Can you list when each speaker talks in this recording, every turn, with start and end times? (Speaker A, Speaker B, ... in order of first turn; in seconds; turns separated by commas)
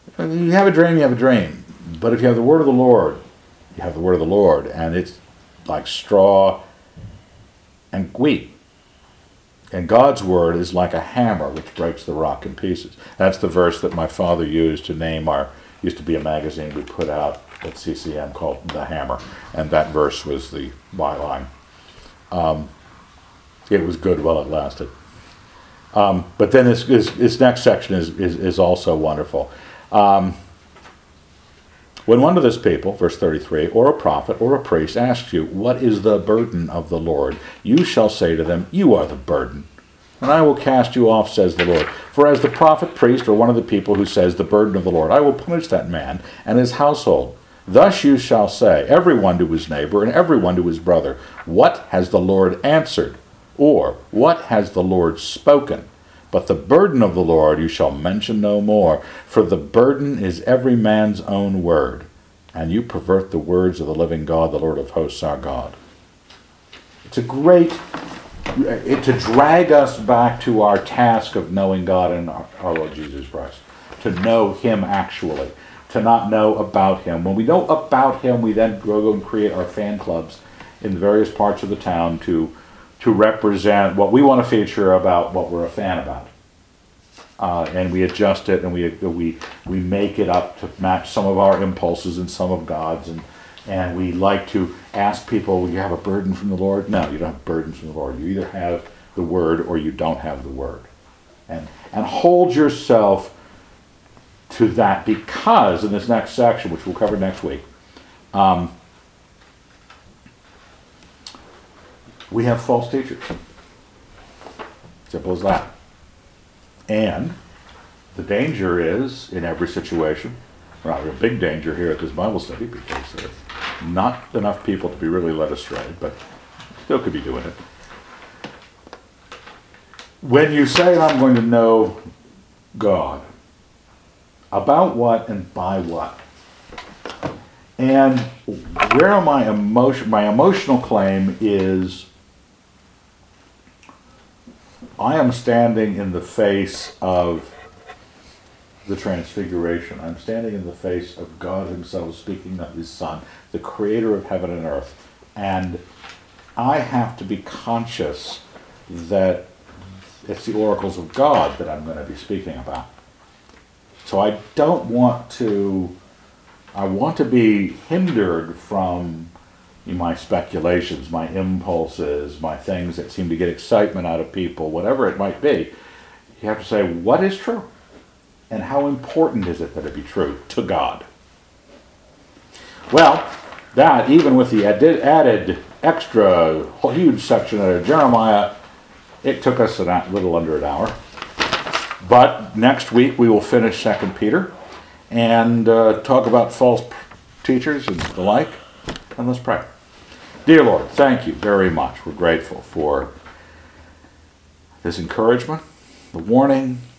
Speaker A: 0.2-3.2, Speaker A: 3.8-6.6, Speaker A: 7.9-8.6, Speaker A: 9.7-21.5, Speaker A: 22.3-22.7, Speaker A: 23.7-24.9, Speaker A: 25.9-30.4, Speaker A: 32.1-39.7, Speaker A: 40.2-65.8, Speaker A: 67.1-67.8, Speaker A: 68.5-86.3, Speaker A: 87.4-100.9, Speaker A: 101.5-103.3, Speaker A: 104.5-107.7, Speaker A: 108.3-108.7, Speaker A: 112.3-113.3, Speaker A: 115.1-115.7, Speaker A: 116.9-117.4, Speaker A: 118.1-126.2, Speaker A: 126.8-127.6, Speaker A: 130.2-132.0, Speaker A: 132.8-133.2, Speaker A: 134.5-136.2, Speaker A: 137.8-142.1, Speaker A: 145.0-147.5, Speaker A: 148.8-155.8, Speaker A: 156.6-159.5, Speaker A: 160.2-162.9, Speaker A: 164.0-166.0, Speaker A: 166.8-169.3, Speaker A: 169.9-175.7, Speaker A: 176.4-177.7, Speaker A: 178.5-181.1, Speaker A: 182.9-188.6, Speaker A: 189.2-191.0, Speaker A: 192.0-194.5, Speaker A: 195.1-198.6, Speaker A: 199.1-199.7, Speaker A: 200.5-203.1, Speaker A: 204.8-206.8